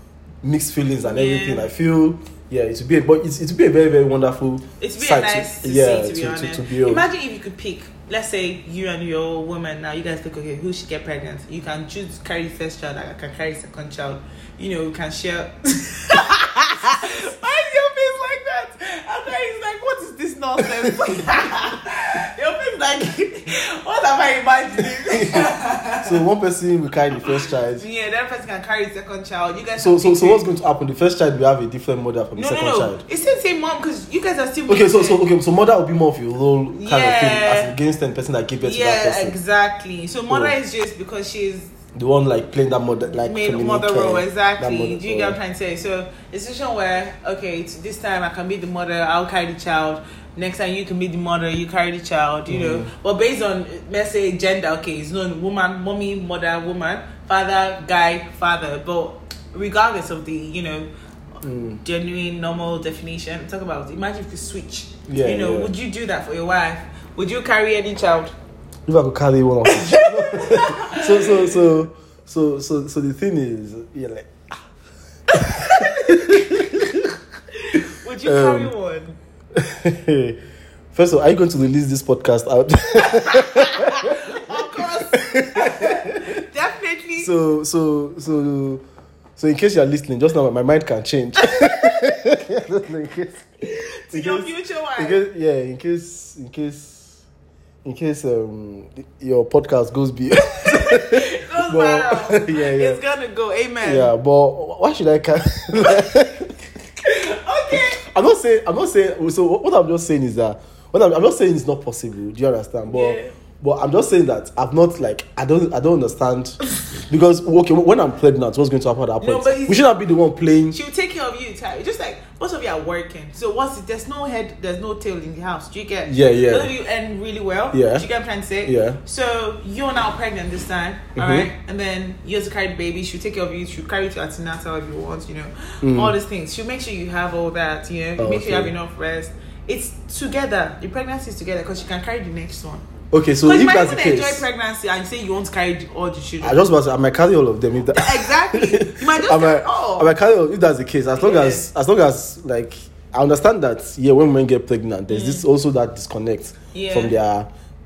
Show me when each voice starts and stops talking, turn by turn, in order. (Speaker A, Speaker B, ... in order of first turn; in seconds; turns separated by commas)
Speaker A: 0.4-7.1, Speaker B: 1.0-1.7, Speaker B: 4.8-26.2, Speaker A: 25.1-27.9, Speaker B: 27.4-30.4, Speaker A: 29.8-33.0, Speaker B: 32.4-35.2, Speaker A: 34.7-39.4, Speaker B: 36.8-37.8, Speaker B: 38.6-41.7, Speaker A: 40.3-40.6, Speaker A: 41.9-45.4, Speaker B: 43.2-60.9, Speaker A: 52.5-52.9, Speaker A: 61.4-61.8, Speaker B: 61.8-68.3, Speaker A: 65.1-65.7, Speaker A: 68.9-74.3, Speaker B: 69.7-71.7, Speaker A: 75.3-77.1, Speaker B: 75.4-76.4, Speaker B: 77.6-79.2, Speaker A: 78.2-78.7, Speaker A: 79.5-80.4, Speaker A: 80.9-84.2, Speaker B: 83.2-87.3, Speaker A: 85.1-86.2, Speaker A: 87.2-88.8, Speaker A: 89.4-93.5, Speaker B: 91.4-92.0, Speaker B: 93.6-95.2, Speaker A: 94.1-97.2, Speaker A: 97.8-103.0, Speaker B: 100.5-104.1, Speaker A: 103.8-106.6, Speaker B: 105.8-106.1, Speaker B: 107.0-108.0, Speaker A: 107.7-120.8, Speaker B: 112.9-113.4, Speaker B: 119.2-119.9, Speaker B: 120.7-142.8, Speaker A: 126.1-126.7, Speaker A: 127.7-128.1, Speaker A: 128.6-129.0, Speaker A: 131.2-131.5, Speaker A: 135.8-136.2, Speaker A: 138.2-138.7, Speaker A: 143.1-144.5, Speaker B: 143.4-146.7, Speaker A: 146.4-157.5, Speaker B: 147.9-150.1, Speaker B: 151.2-151.7, Speaker B: 155.1-155.5, Speaker B: 156.7-157.2